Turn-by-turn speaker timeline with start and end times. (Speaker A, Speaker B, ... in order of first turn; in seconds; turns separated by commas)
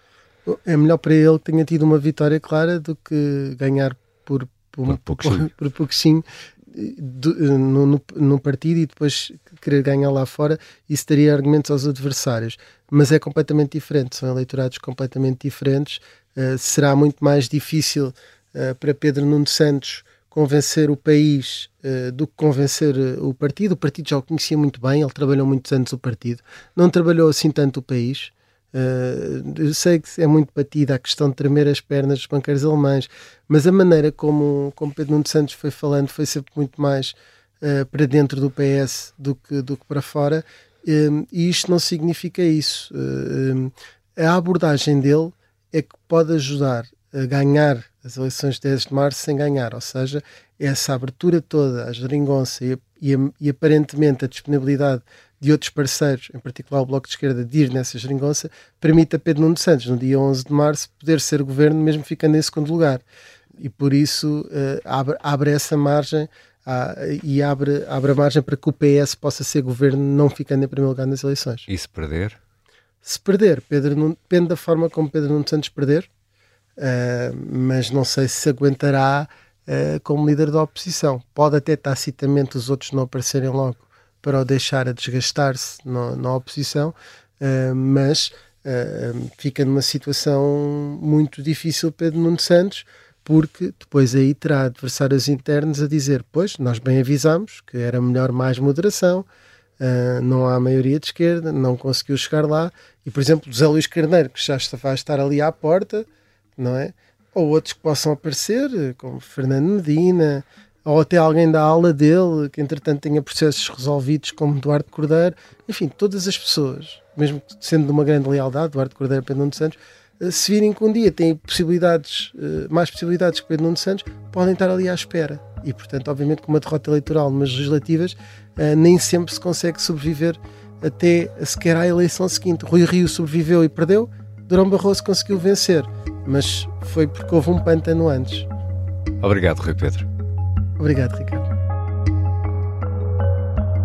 Speaker A: 0.5-63.0, Speaker B: 4.9-5.4, Speaker A: 63.6-71.7, Speaker B: 71.7-72.4, Speaker A: 73.0-76.1, Speaker A: 76.8-99.3, Speaker A: 99.8-106.1, Speaker A: 106.6-138.5, Speaker B: 139.2-140.1, Speaker A: 140.8-141.5